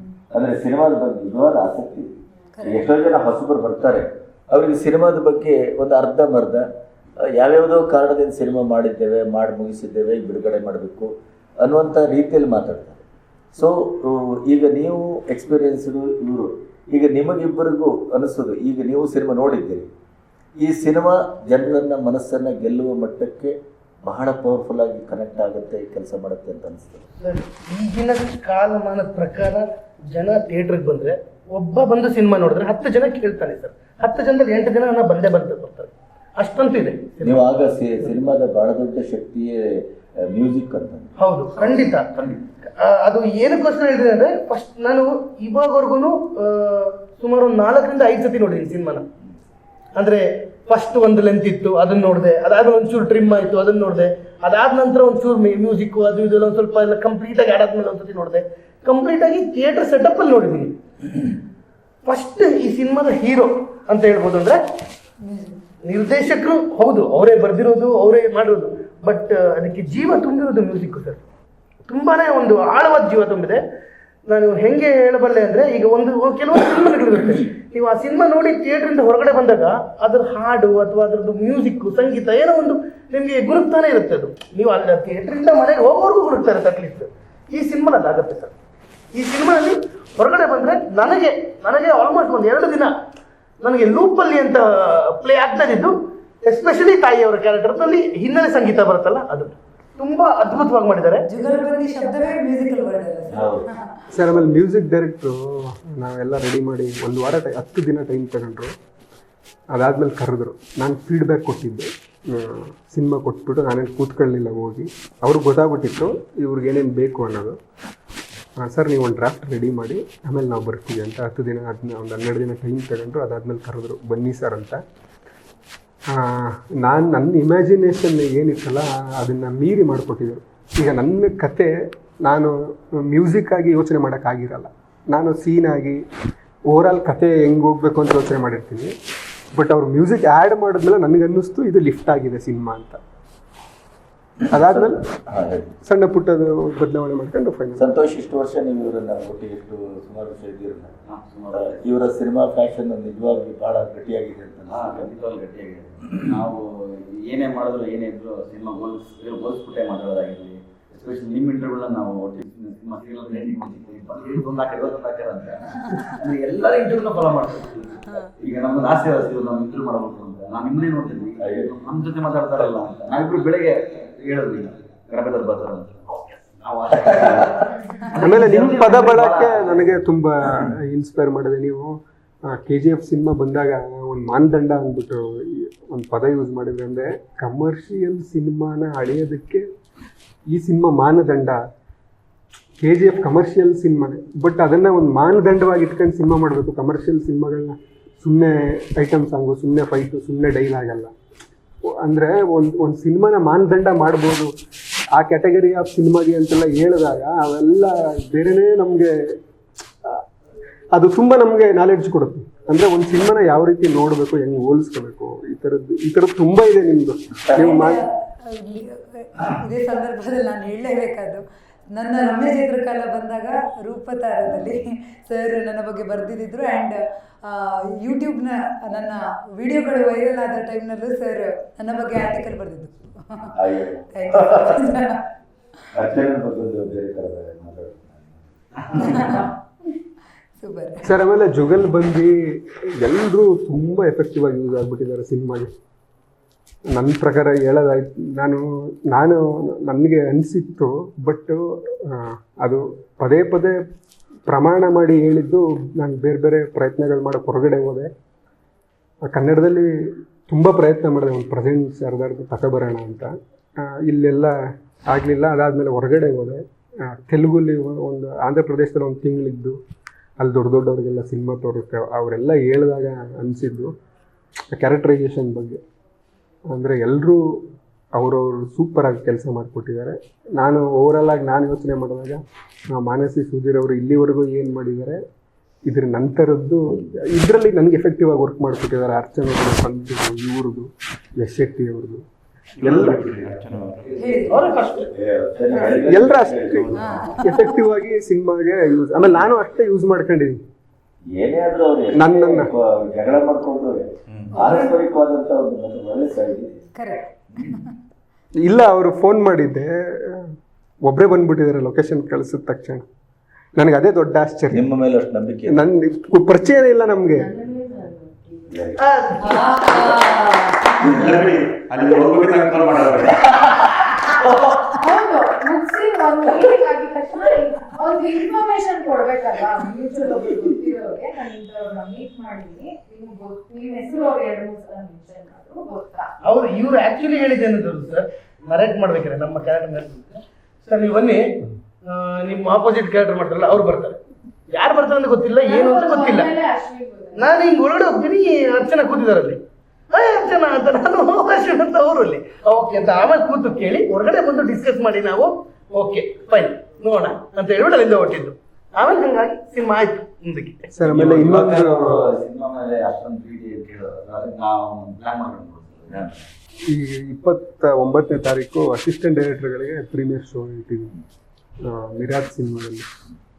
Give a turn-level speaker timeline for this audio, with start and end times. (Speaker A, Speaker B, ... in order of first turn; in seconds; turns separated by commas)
Speaker A: 0.3-6.7, Speaker B: 2.5-2.9, Speaker A: 7.2-13.0, Speaker A: 13.5-19.9, Speaker A: 20.6-27.1, Speaker C: 27.2-37.5, Speaker A: 37.2-41.1, Speaker C: 41.2-42.1, Speaker D: 41.6-42.4, Speaker C: 42.7-49.0, Speaker C: 50.0-60.8, Speaker C: 62.0-64.6, Speaker B: 65.2-65.6, Speaker C: 65.8-71.2, Speaker C: 71.9-73.6, Speaker C: 74.3-88.5, Speaker C: 89.1-92.9, Speaker C: 93.6-101.3, Speaker B: 101.3-103.8, Speaker A: 103.3-103.7, Speaker E: 104.1-108.8, Speaker E: 109.7-117.6, Speaker E: 118.6-124.8, Speaker E: 126.1-136.1, Speaker E: 136.7-138.9, Speaker E: 139.5-143.0, Speaker A: 144.4-145.8, Speaker E: 144.5-145.0, Speaker E: 145.8-148.0, Speaker A: 147.8-150.9, Speaker D: 151.1-151.8, Speaker A: 151.5-155.1, Speaker D: 154.7-180.0, Speaker A: 171.4-171.7, Speaker E: 178.2-189.7, Speaker E: 190.5-191.6, Speaker E: 192.8-201.1, Speaker E: 202.0-204.5, Speaker E: 205.1-209.4, Speaker E: 210.9-218.0, Speaker B: 217.5-233.5, Speaker A: 224.5-224.8, Speaker A: 233.6-235.1, Speaker B: 234.1-235.2, Speaker A: 235.9-239.4, Speaker B: 238.9-239.4, Speaker F: 239.0-239.4, Speaker B: 240.6-241.1, Speaker E: 241.0-245.7, Speaker E: 246.9-253.8, Speaker E: 254.5-258.1, Speaker E: 259.2-269.8, Speaker E: 270.4-273.9, Speaker E: 274.7-275.8, Speaker E: 276.7-277.6, Speaker E: 278.1-285.2, Speaker E: 285.9-292.2, Speaker G: 292.8-294.4, Speaker E: 292.8-293.2, Speaker B: 294.1-294.7, Speaker C: 294.5-295.1, Speaker A: 295.1-297.0, Speaker E: 295.7-300.6, Speaker G: 296.7-297.4, Speaker B: 297.0-297.7, Speaker A: 301.3-306.8, Speaker E: 302.2-302.7, Speaker G: 304.3-304.6, Speaker B: 304.6-304.9, Speaker B: 306.9-307.8, Speaker E: 308.6-313.1, Speaker E: 313.8-314.9, Speaker A: 314.7-315.9, Speaker E: 315.7-317.5, Speaker F: 317.3-318.8, Speaker A: 318.7-319.0, Speaker C: 319.0-320.2, Speaker B: 319.4-321.2, Speaker G: 321.0-323.7, Speaker A: 324.4-324.8, Speaker F: 324.9-336.4, Speaker C: 336.4-346.6, Speaker F: 345.6-347.5, Speaker C: 347.4-360.9, Speaker E: 360.9-362.3, Speaker D: 361.0-366.4, Speaker E: 366.9-371.2, Speaker E: 371.8-373.1